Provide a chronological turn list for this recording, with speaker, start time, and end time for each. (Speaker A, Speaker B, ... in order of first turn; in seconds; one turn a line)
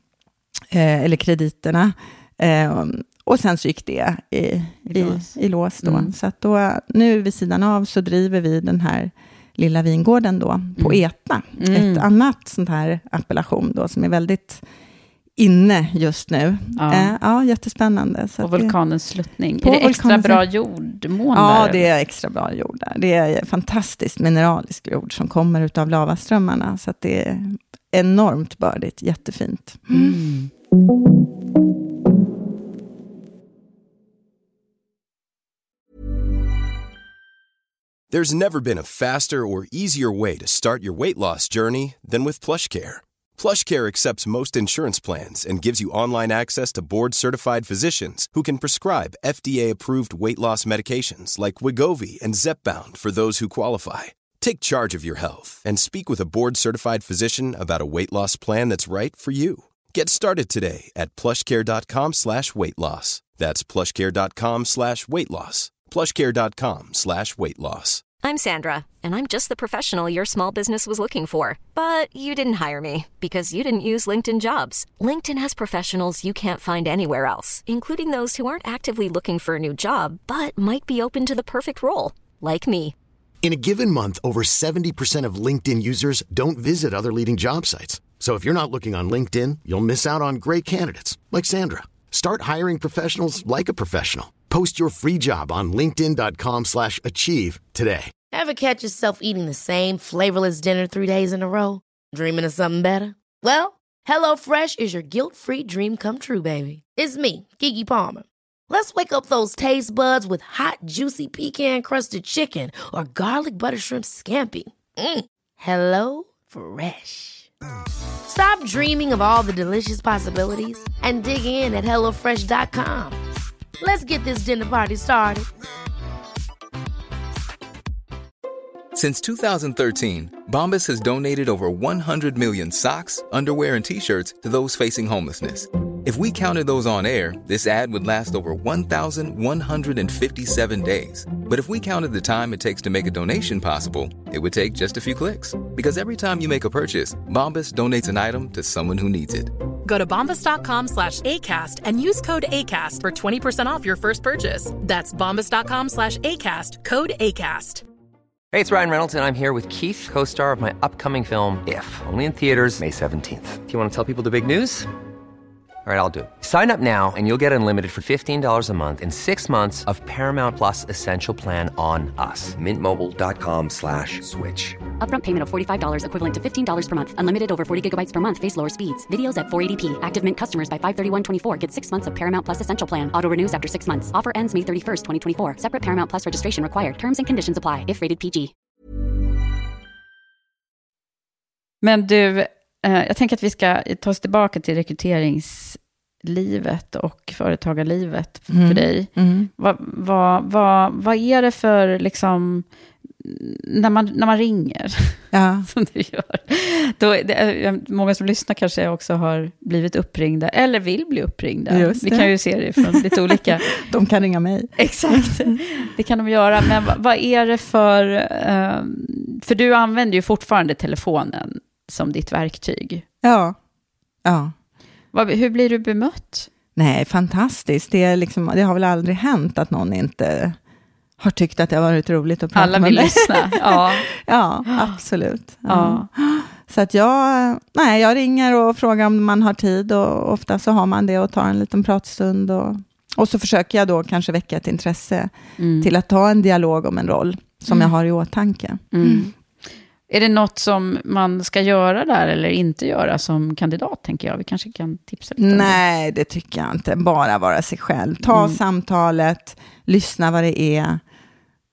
Speaker A: 0.7-14.6
Speaker B: 4.9-6.1
Speaker B: 11.6-12.1
Speaker A: 15.4-18.7
Speaker B: 16.8-17.1
Speaker B: 18.4-21.9
Speaker A: 19.6-20.4
Speaker A: 21.3-30.2
Speaker B: 29.9-30.5
Speaker C: 38.1-68.0
Speaker D: 68.2-82.9
Speaker E: 83.4-98.1
Speaker F: 98.3-117.5
Speaker F: 118.2-123.2
Speaker F: 123.8-125.5
Speaker G: 128.9-149.5
Speaker H: 149.8-157.8
Speaker I: 158.5-164.9
Speaker I: 165.8-174.8
Speaker J: 175.0-188.5
Speaker B: 191.8-202.7
Speaker A: 198.5-199.5
Speaker B: 203.2-213.7
Speaker A: 205.3-205.7
Speaker A: 211.7-215.5
Speaker B: 214.8-223.0
Speaker A: 223.2-223.6
Speaker A: 224.2-224.5
Speaker B: 225.1-226.5
Speaker A: 226.7-230.6
Speaker A: 231.2-249.3
Speaker B: 232.5-234.1
Speaker B: 235.7-236.1
Speaker B: 245.6-245.9
Speaker B: 248.9-249.3
Speaker B: 250.1-255.8
Speaker A: 255.4-261.0
Speaker B: 258.3-258.6